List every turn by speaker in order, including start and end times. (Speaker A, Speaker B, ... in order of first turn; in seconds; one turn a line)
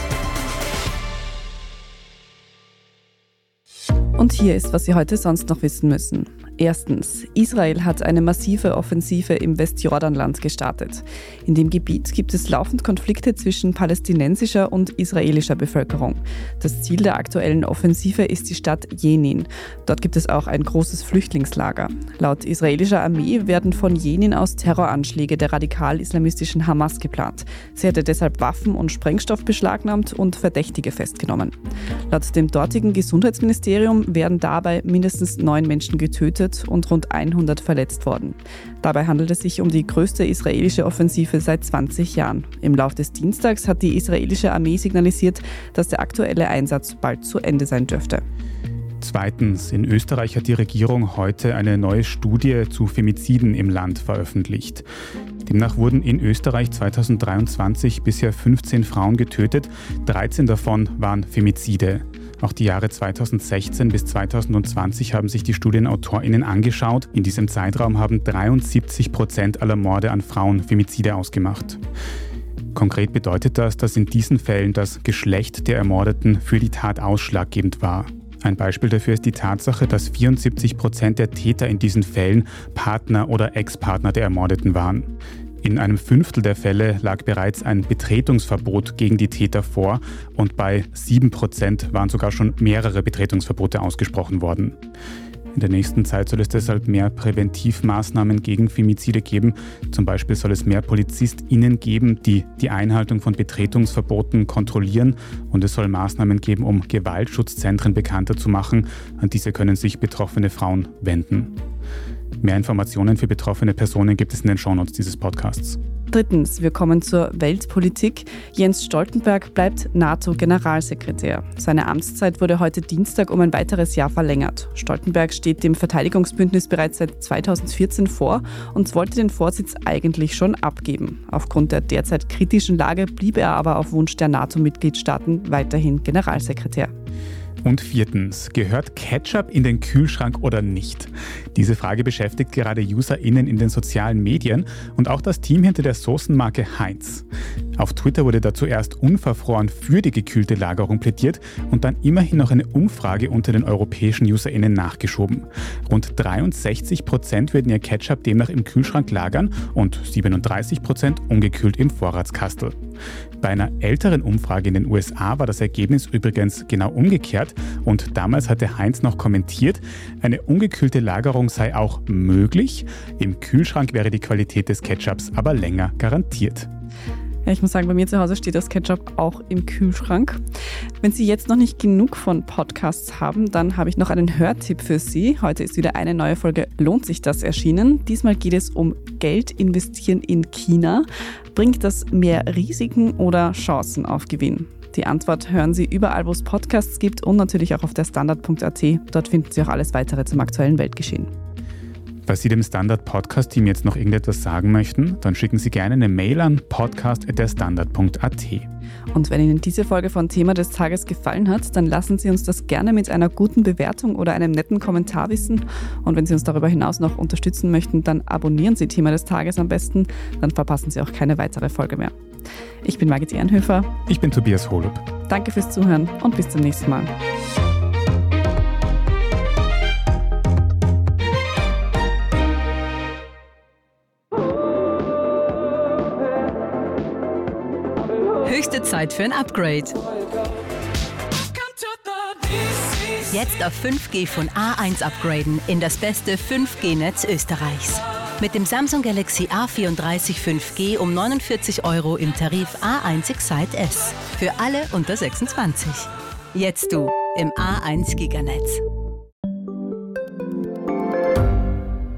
Speaker A: 4.2-31.6
Speaker A: 32.1-48.2
Speaker B: 49.0-54.9
Speaker B: 55.5-71.8
Speaker B: 72.8-94.8
Speaker B: 95.5-111.5
Speaker B: 112.4-115.8
Speaker A: 116.1-136.9
Speaker B: 137.6-147.2
Speaker B: 147.8-162.8
Speaker B: 163.4-176.7
Speaker A: 177.5-180.4
Speaker A: 181.0-201.3
Speaker B: 202.3-208.7
Speaker A: 209.1-222.1
Speaker A: 222.8-223.9
Speaker B: 224.1-225.0
Speaker A: 225.3-227.1
Speaker C: 238.4-239.9
Speaker C: 243.2-258.8